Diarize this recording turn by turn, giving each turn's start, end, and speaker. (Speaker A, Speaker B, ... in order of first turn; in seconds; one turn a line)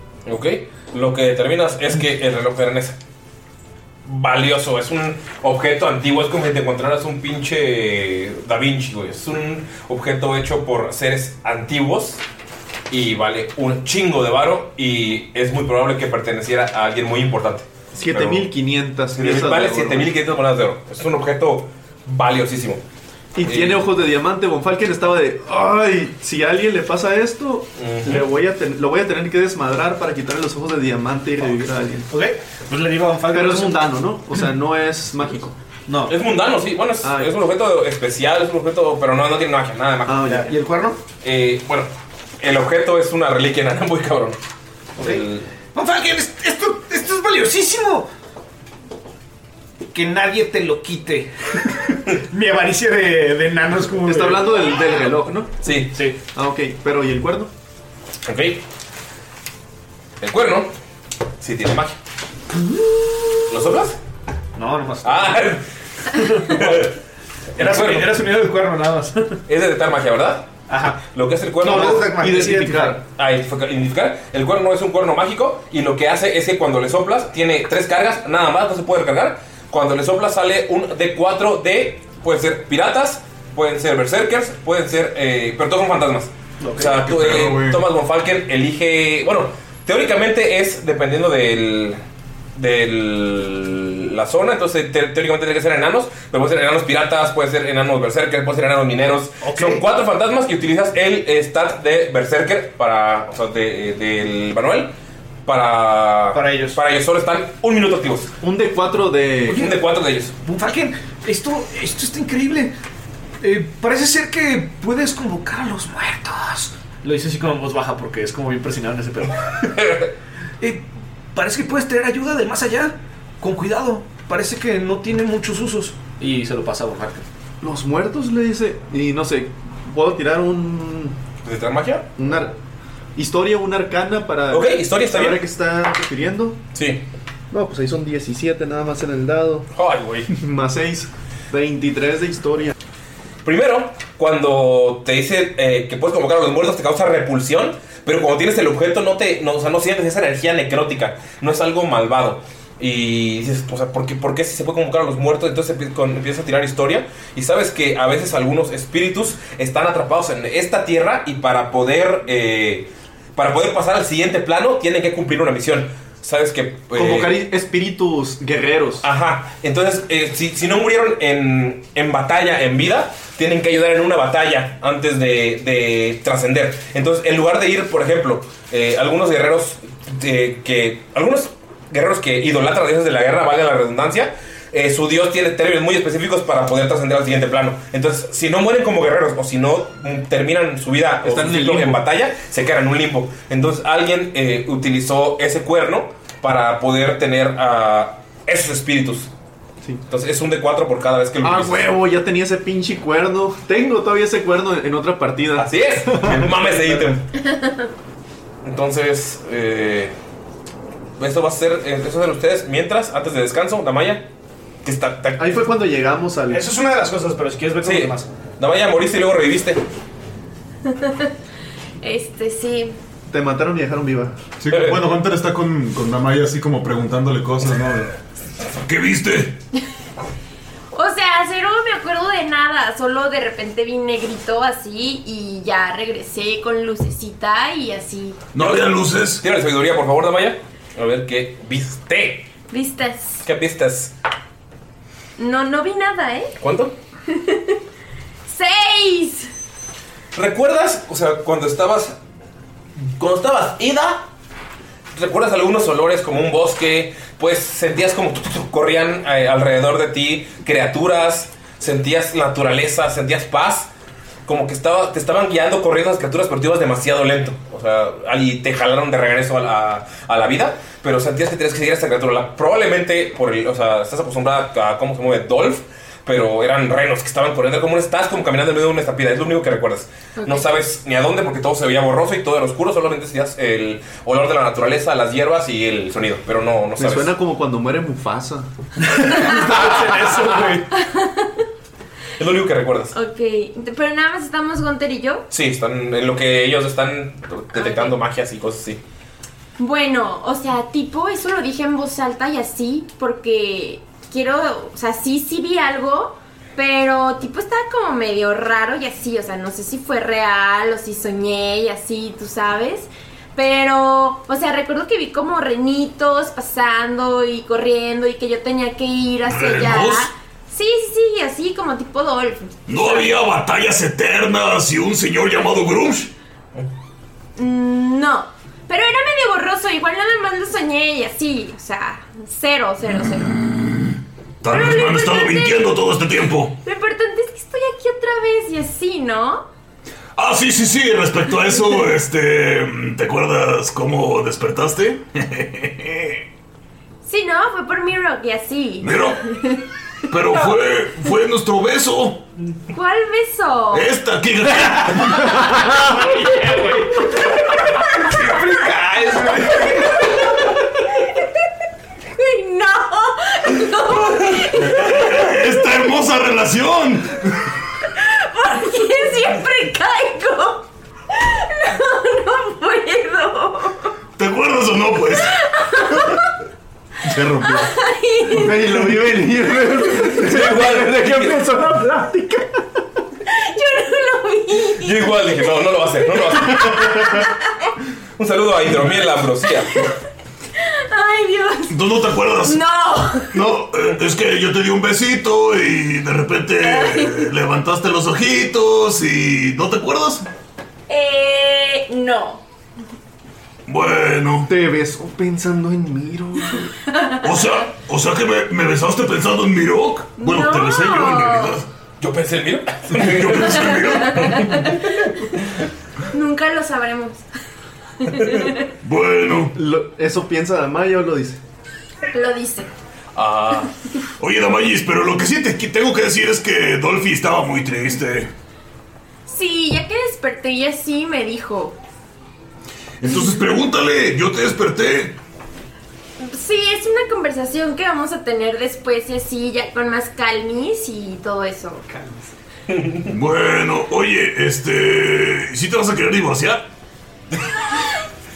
Speaker A: 0.2-3.0
Speaker A: 4.0-12.2
Speaker A: 12.9-18.5
Speaker B: 17.9-20.1
Speaker A: 19.1-22.8
Speaker B: 23.3-32.1
Speaker A: 23.4-23.9
Speaker A: 27.8-28.3
Speaker C: 32.1-33.8
Speaker B: 33.3-35.6
Speaker C: 35.9-36.1
Speaker A: 36.1-40.2
Speaker B: 37.0-37.3
Speaker B: 40.0-40.5
Speaker C: 40.2-41.0
Speaker A: 41.2-44.4
Speaker A: 45.0-45.5
Speaker C: 45.0-48.1
Speaker C: 49.9-54.7
Speaker B: 54.0-55.7
Speaker A: 55.6-56.0
Speaker C: 55.9-56.2
Speaker B: 56.3-57.5
Speaker A: 58.2-58.6
Speaker A: 60.2-60.7
Speaker A: 61.4-62.0
Speaker A: 63.5-64.0
Speaker C: 64.5-65.5
Speaker A: 65.0-65.6
Speaker C: 66.1-66.9
Speaker A: 66.5-66.9
Speaker A: 67.5-68.2
Speaker C: 67.5-69.4
Speaker A: 69.5-70.5
Speaker C: 70.7-71.0
Speaker A: 71.0-72.1
Speaker C: 71.6-73.0
Speaker B: 71.7-73.0
Speaker A: 73.1-92.0
Speaker C: 86.6-87.0
Speaker D: 86.9-87.8
Speaker A: 92.5-104.9
Speaker C: 99.4-99.8
Speaker A: 105.5-108.3
Speaker C: 106.3-106.8
Speaker B: 108.4-109.7
Speaker A: 109.5-110.3
Speaker C: 110.4-112.7
Speaker C: 113.4-119.7
Speaker A: 119.8-120.1
Speaker C: 120.6-127.3
Speaker B: 127.6-131.2
Speaker A: 131.4-132.1
Speaker B: 132.2-132.5
Speaker B: 133.2-136.6
Speaker A: 134.5-135.4
Speaker A: 136.7-137.1
Speaker B: 137.5-139.7
Speaker A: 139.7-140.3
Speaker B: 140.3-142.7
Speaker A: 143.4-167.4
Speaker B: 166.9-169.1
Speaker A: 169.0-199.3
Speaker B: 191.2-192.0
Speaker A: 200.1-201.9
Speaker B: 201.4-207.1
Speaker A: 205.6-207.2
Speaker A: 208.6-210.2
Speaker A: 211.2-214.3
Speaker A: 214.8-215.6
Speaker B: 215.4-216.7
Speaker C: 216.5-218.3
Speaker A: 217.8-219.8
Speaker E: 220.9-221.3
Speaker E: 222.0-222.9
Speaker B: 223.3-224.4
Speaker D: 224.6-228.1
Speaker A: 224.7-225.1
Speaker F: 228.8-229.6
Speaker E: 230.9-238.4
Speaker F: 238.5-239.4
Speaker A: 238.6-242.5
Speaker E: 242.7-243.4
Speaker A: 243.4-244.1
Speaker E: 245.4-246.6
Speaker A: 246.6-246.9
Speaker E: 247.3-247.8
Speaker E: 248.4-249.5
Speaker A: 250.3-252.2
Speaker A: 253.0-254.3
Speaker A: 255.1-263.9
Speaker A: 264.4-287.3
Speaker E: 280.4-280.6
Speaker B: 287.0-288.7
Speaker C: 289.0-290.9
Speaker A: 289.7-290.8
Speaker E: 290.9-291.6
Speaker A: 292.4-293.1
Speaker E: 293.1-295.4
Speaker A: 295.5-299.0
Speaker E: 297.7-298.1
Speaker E: 299.8-323.4
Speaker F: 319.4-320.3
Speaker F: 322.9-326.3
Speaker E: 327.6-333.5
Speaker F: 333.6-336.8
Speaker E: 334.6-336.0
Speaker E: 336.8-339.6
Speaker F: 340.4-346.4
Speaker E: 347.2-349.8
Speaker F: 349.0-349.4
Speaker F: 350.3-352.4
Speaker E: 352.9-354.1
Speaker F: 353.9-356.0
Speaker C: 355.9-360.4
Speaker E: 359.9-360.3
Speaker E: 362.4-366.0
Speaker F: 364.8-367.4
Speaker E: 368.1-374.1
Speaker F: 374.4-375.5
Speaker E: 375.4-376.5
Speaker D: 377.2-377.9
Speaker E: 377.6-378.8
Speaker B: 378.5-382.8
Speaker A: 380.2-381.6
Speaker E: 383.5-385.3
Speaker A: 385.0-387.4
Speaker E: 386.3-387.9
Speaker A: 388.4-389.9
Speaker E: 390.8-393.6
Speaker F: 391.9-392.8
Speaker F: 393.5-400.4
Speaker E: 396.8-397.5
Speaker E: 401.1-402.6
Speaker F: 403.9-404.7
Speaker B: 404.6-406.9
Speaker E: 407.1-407.5
Speaker F: 407.4-411.9
Speaker E: 410.4-411.8
Speaker A: 412.2-413.8
Speaker F: 413.1-414.6
Speaker E: 413.5-415.0
Speaker A: 414.6-414.9
Speaker E: 416.3-417.4
Speaker E: 418.2-418.9
Speaker F: 419.0-419.7
Speaker B: 419.7-421.6
Speaker E: 422.3-422.9
Speaker A: 423.4-423.9
Speaker F: 424.4-428.5
Speaker E: 429.5-432.0
Speaker F: 433.2-435.4
Speaker E: 436.4-442.4
Speaker A: 442.9-443.3
Speaker F: 443.3-446.9
Speaker E: 447.8-448.1